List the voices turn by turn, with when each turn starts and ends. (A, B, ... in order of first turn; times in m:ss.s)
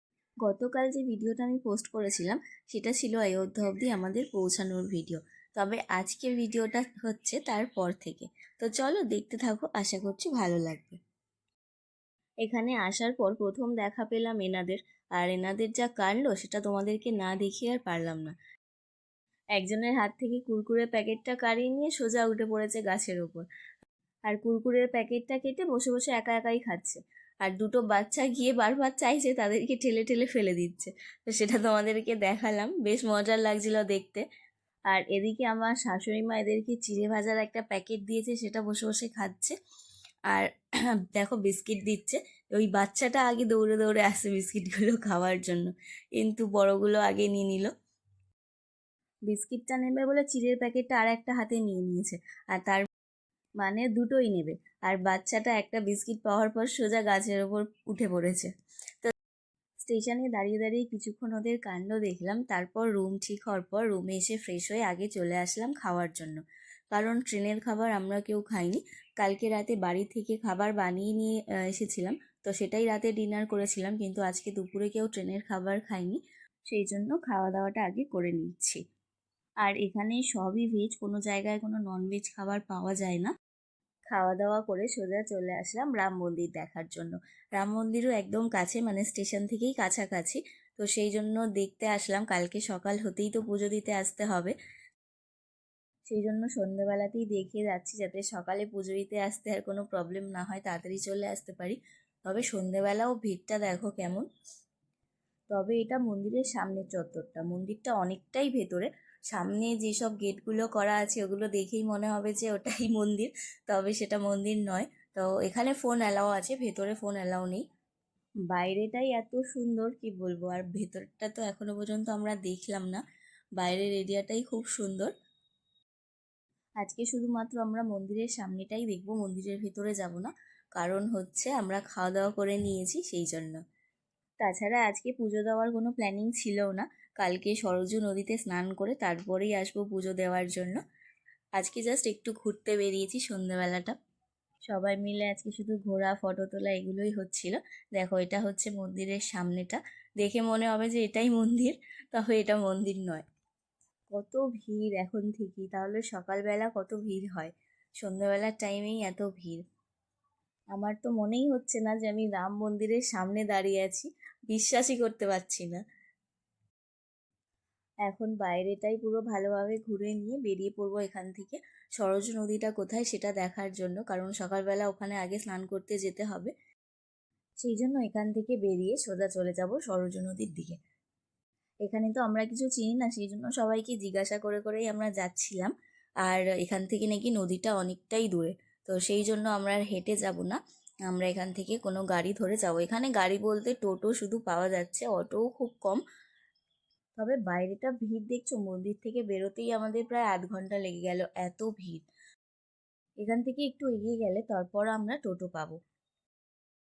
0:00.4-0:11.0 A
0:12.4-0:18.3 A
0:19.6-0:23.4 A
0:24.3-0:34.2 A
0:34.9-0:39.5 A
0:41.1-0:47.7 A
0:49.3-0:52.8 A
0:53.6-0:58.5 A
0:59.8-1:06.4 A
1:06.9-1:18.8 A
1:19.6-1:23.3 A
1:24.1-1:34.5 A
1:36.1-1:44.3 A
1:45.5-1:57.6 A
1:58.5-2:03.0 A
2:03.6-2:05.1 A
2:06.8-2:13.6 A
2:14.4-2:20.8 A
2:21.6-2:24.0 A
2:24.7-2:33.2 A
2:34.1-2:39.6 A
2:40.7-2:45.8 A
2:48.0-2:56.5 A
2:57.6-3:00.8 A
3:01.8-3:05.7 A
3:06.2-3:16.0 A
3:17.2-3:22.0 A
3:23.2-3:25.7 A